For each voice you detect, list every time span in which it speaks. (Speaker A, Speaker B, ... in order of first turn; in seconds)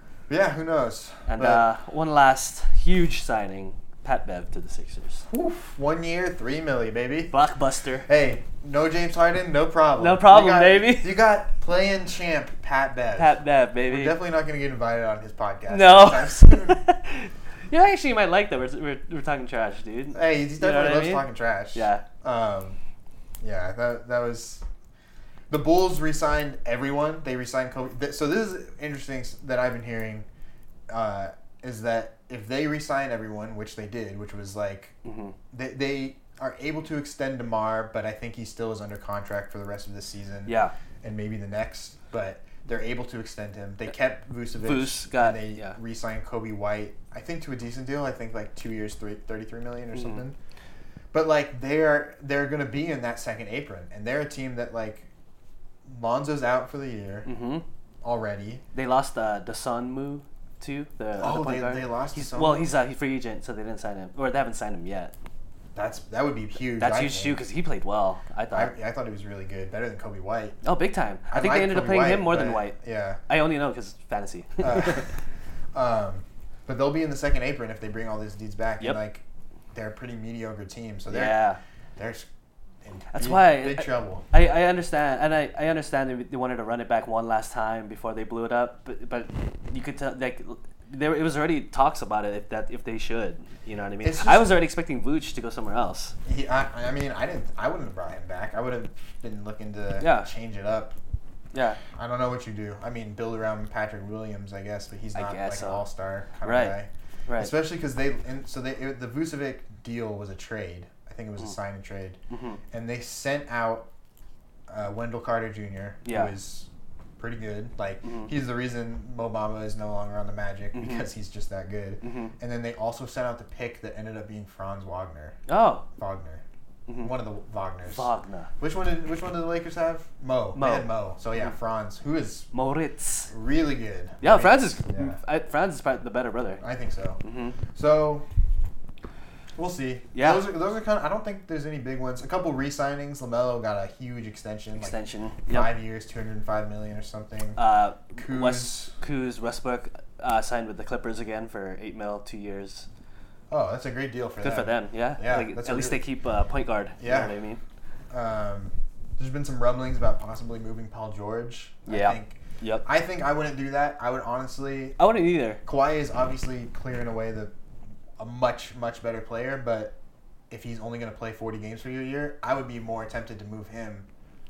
Speaker A: 0.3-1.7, 5.3-7.3, 8.1-16.8, 20.1-22.8, 23.4-24.6, 25.5-30.3, 30.9-34.9, 35.5-50.4, 51.1-55.1, 55.9-57.3, 58.0-58.6, 61.2-62.7, 65.7-67.4, 68.5-70.5, 71.3-73.2, 74.6-75.0, 75.7-81.4, 82.0-82.3, 82.8-84.2, 94.0-94.6, 96.2-100.9, 101.9-112.2, 112.7-113.9, 114.7-116.7, 117.2-125.3, 125.9-126.4, 127.0-128.1, 128.6-132.5, 133.3-135.2, 136.6-137.2, 137.7-138.3, 139.6-145.0, 145.5-147.6, 148.2-148.9, 153.5-156.0, 157.0-157.3, 158.1-165.0, 165.6-167.5, 168.2-169.9, 170.5-174.1
Speaker B: 1.3-5.2, 7.3-8.1, 10.0-11.2, 13.2-14.2, 15.7-22.0, 35.0-35.4, 40.5-40.7, 44.6-45.8, 49.9-50.2, 57.2-57.6, 58.7-65.1, 66.8-68.7, 70.6-75.1, 81.1-81.6, 83.1-96.1, 100.0-100.3, 101.5-101.8, 105.1-105.8, 106.4-107.5, 112.3-112.6, 116.0-116.3, 118.0-118.3, 120.7-121.0, 122.0-122.3, 125.5-125.8, 126.9-127.1, 127.8-128.5, 130.5-131.5, 132.5-133.3, 134.2-136.6, 137.2-137.6, 140.1-140.5, 144.7-145.7, 147.6-152.9, 154.4-157.6, 161.9-162.8, 165.0-165.6